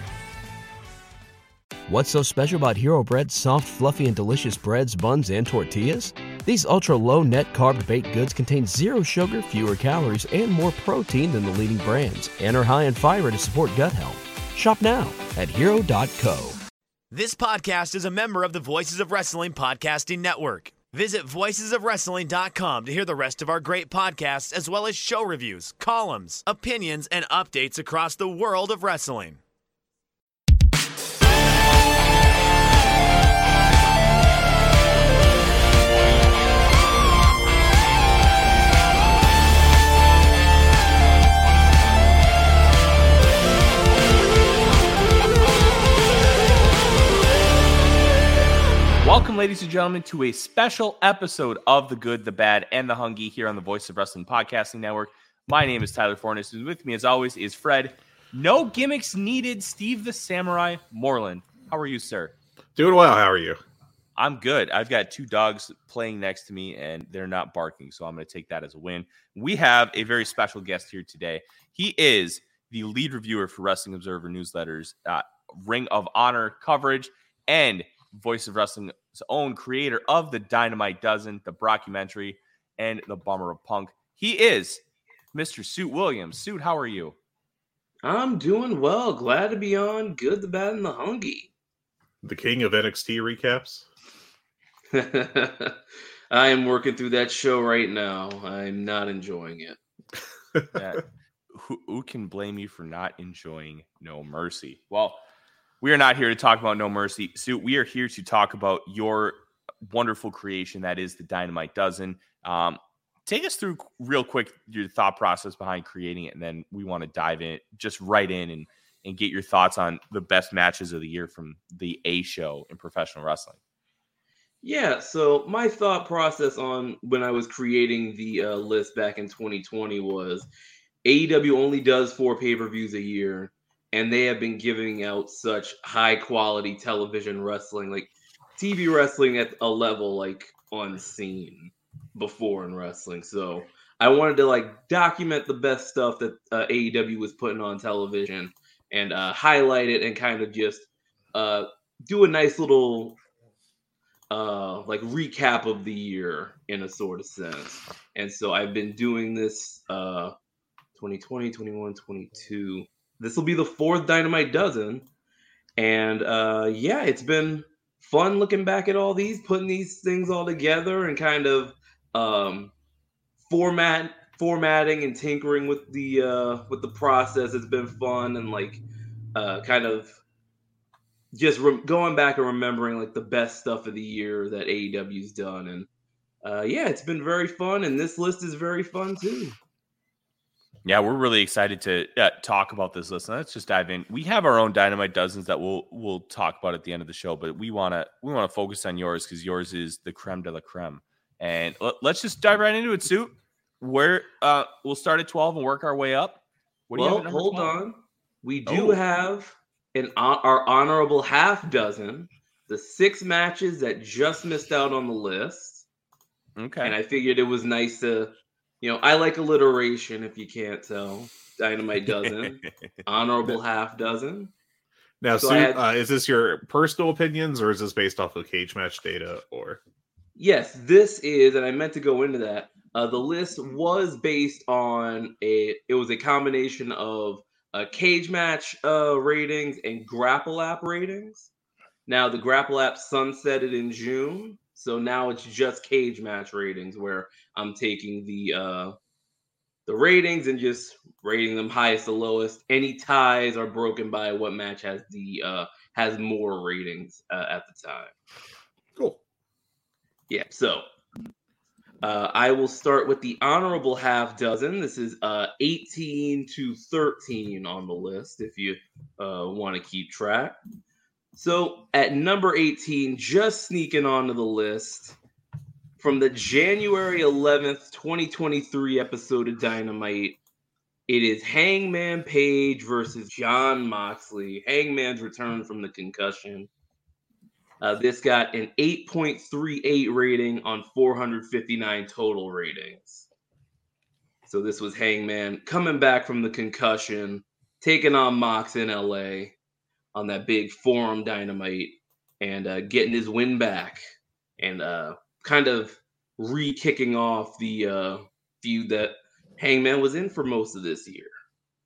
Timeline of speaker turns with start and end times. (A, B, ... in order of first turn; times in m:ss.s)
0:01.9-0:16.6 A
0:17.1-0:29.4 B
0:49.0-1:02.3 C
1:02.8-1:03.6 D
1:04.2-1:24.8 C
1:25.3-1:27.2 C
1:28.0-1:31.5 E
1:32.2-1:33.9 D
1:34.9-1:35.8 E
1:36.3-1:39.8 E
1:40.8-1:45.2 C
1:45.8-2:03.6 C
2:04.6-2:10.5 E
2:11.0-2:33.2 E
2:34.3-2:40.3 E
2:41.0-2:45.1 E
2:45.8-2:52.7 E
2:53.5-2:58.8 E
2:59.4-3:00.2 E
3:01.3-3:05.9 E
3:06.4-3:09.6 E
3:10.8-3:27.7 C
3:27.0-3:35.8 E
3:28.7-3:29.0 C
3:36.6-3:37.0 C
3:36.8-3:44.5 E
3:45.2-3:49.8 D
3:45.4-3:45.8 E
3:50.4-4:01.5 E
4:02.1-4:09.0 E
4:09.9-4:18.1 E
4:20.3-4:20.8 E
4:22.0-4:30.6 E
4:31.4-4:35.2 E
4:36.0-4:40.4 E
4:41.1-4:46.7 E
4:47.8-4:53.3 E
4:54.5-4:59.5 E
5:00.2-5:04.0 E
5:04.6-5:11.3 E